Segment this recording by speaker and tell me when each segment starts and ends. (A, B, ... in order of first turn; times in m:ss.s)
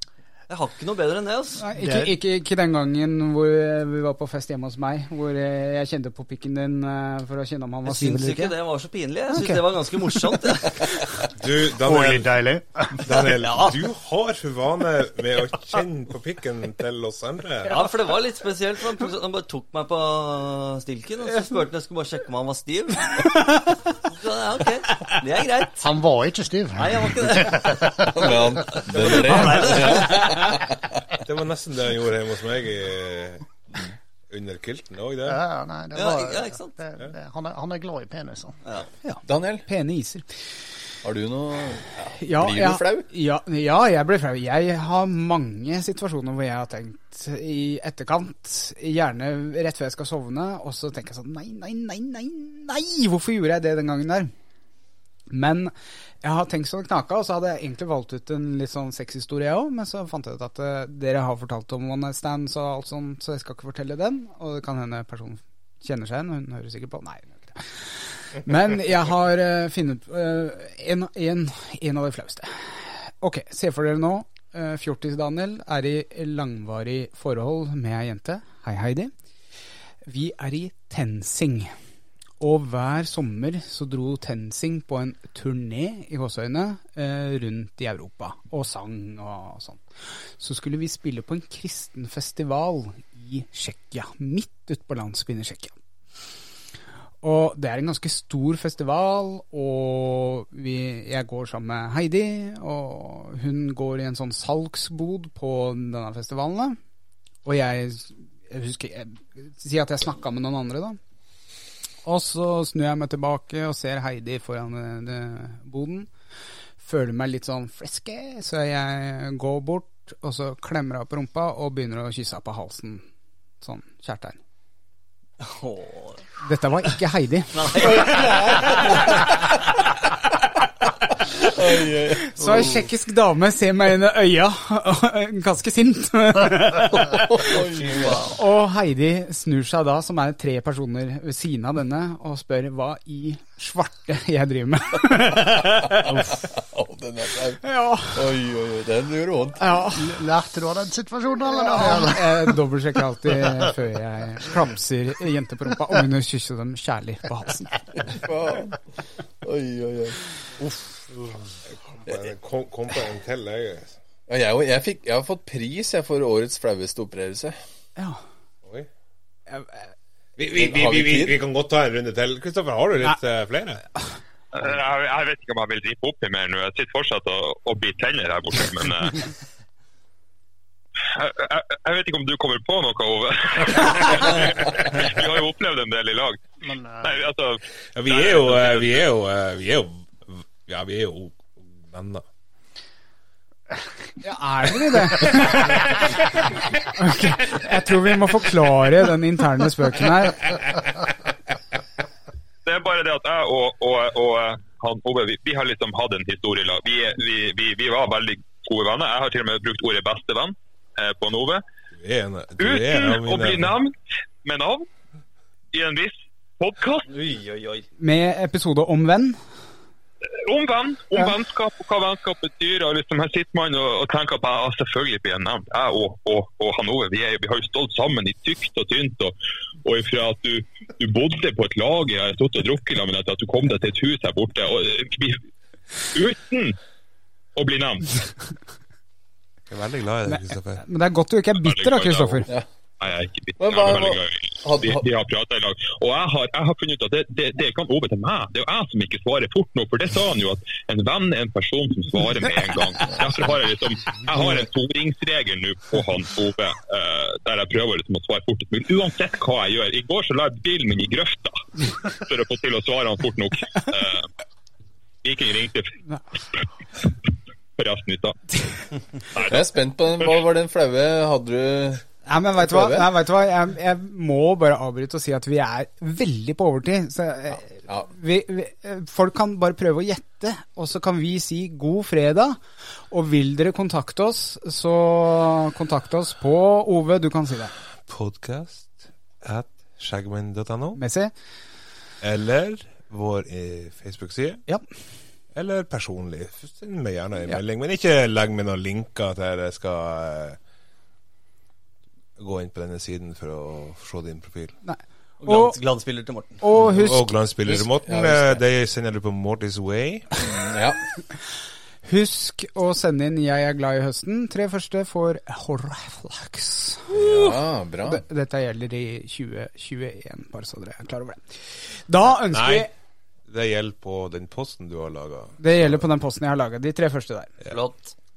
0:00.5-0:01.6 A
0:01.6-0:08.5 B
0:01.8-0:02.1 C
0:07.8-0:11.3 A
0:09.3-0:09.6 B
0:11.4-0:12.3 D
0:11.8-0:13.3 C
0:13.0-0:17.8 D
0:13.3-0:13.8 A
0:17.6-0:23.4 A
0:23.2-0:23.8 B
0:24.0-0:25.9 A
0:25.8-0:28.9 C
0:26.7-0:28.1 A
0:28.0-0:31.0 E
0:28.7-0:30.6 A
0:31.2-0:33.5 D
0:34.3-0:35.4 D
0:35.2-0:38.6 C
0:35.9-0:36.7 A
0:39.0-0:40.6 B
0:39.2-0:39.6 E
0:41.0-0:43.1 E
0:42.2-0:54.3 B
0:55.3-1:19.1 B
1:20.0-1:21.7 B
1:22.4-1:35.8 B
1:37.2-1:46.8 B
1:47.4-1:51.0 B
1:52.0-1:56.1 B
1:56.8-2:03.0 B
2:03.6-2:04.4 B
2:05.4-2:06.2 A
2:06.4-2:09.3 B
2:07.5-2:09.6 A
2:07.9-2:09.1 E
2:11.4-2:12.7 E
2:12.3-2:17.5 B
2:12.4-2:12.9 A
2:17.0-2:18.3 E
2:17.4-2:18.3 A
2:18.2-2:26.4 B
2:25.8-2:29.8 E
2:27.6-2:28.3 B
2:29.6-2:30.2 B
2:29.9-2:32.6 C
2:31.4-2:37.7 B
2:38.0-2:38.8 E
2:39.4-2:40.3 E
2:41.7-2:43.9 D
2:44.3-2:47.6 E
2:49.5-2:49.9 B
2:50.4-2:53.8 D
2:50.5-2:51.4 E
2:54.5-2:59.3 F
3:01.1-3:06.4 F
3:06.6-3:07.2 C
3:07.0-3:09.0 F
3:07.9-3:12.2 D
3:14.2-3:20.5 B
3:15.2-3:15.9 D
3:22.6-3:31.6 F
3:32.0-3:33.7 D
3:32.6-3:34.9 F
3:35.7-3:37.1 F
3:37.1-3:37.8 A
3:38.0-3:39.4 B
3:40.4-3:55.4 F
3:56.0-3:56.8 F
3:57.6-3:58.2 F
3:59.7-4:00.8 D
4:00.2-4:02.5 B
4:01.6-4:24.3 F
4:03.6-4:05.0 E
4:25.2-4:26.0 F
4:27.8-4:28.6 F
4:29.3-4:29.6 F
4:29.4-4:33.1 E
4:32.2-4:47.7 B
4:48.1-4:51.0 D
4:51.0-4:51.3 B
4:52.2-4:54.7 D
4:55.5-5:00.6 D
5:02.4-5:04.8 D
5:04.8-5:05.8 B
5:05.4-5:06.7 A
5:06.6-5:07.4 B
5:06.9-5:10.4 D
5:07.6-5:08.6 E
5:10.4-5:11.0 E
5:12.0-5:22.9 B
5:17.1-5:18.2 E
5:22.5-5:22.9 D
5:23.5-5:26.0 D
5:25.6-5:27.5 B
5:27.6-5:28.1 A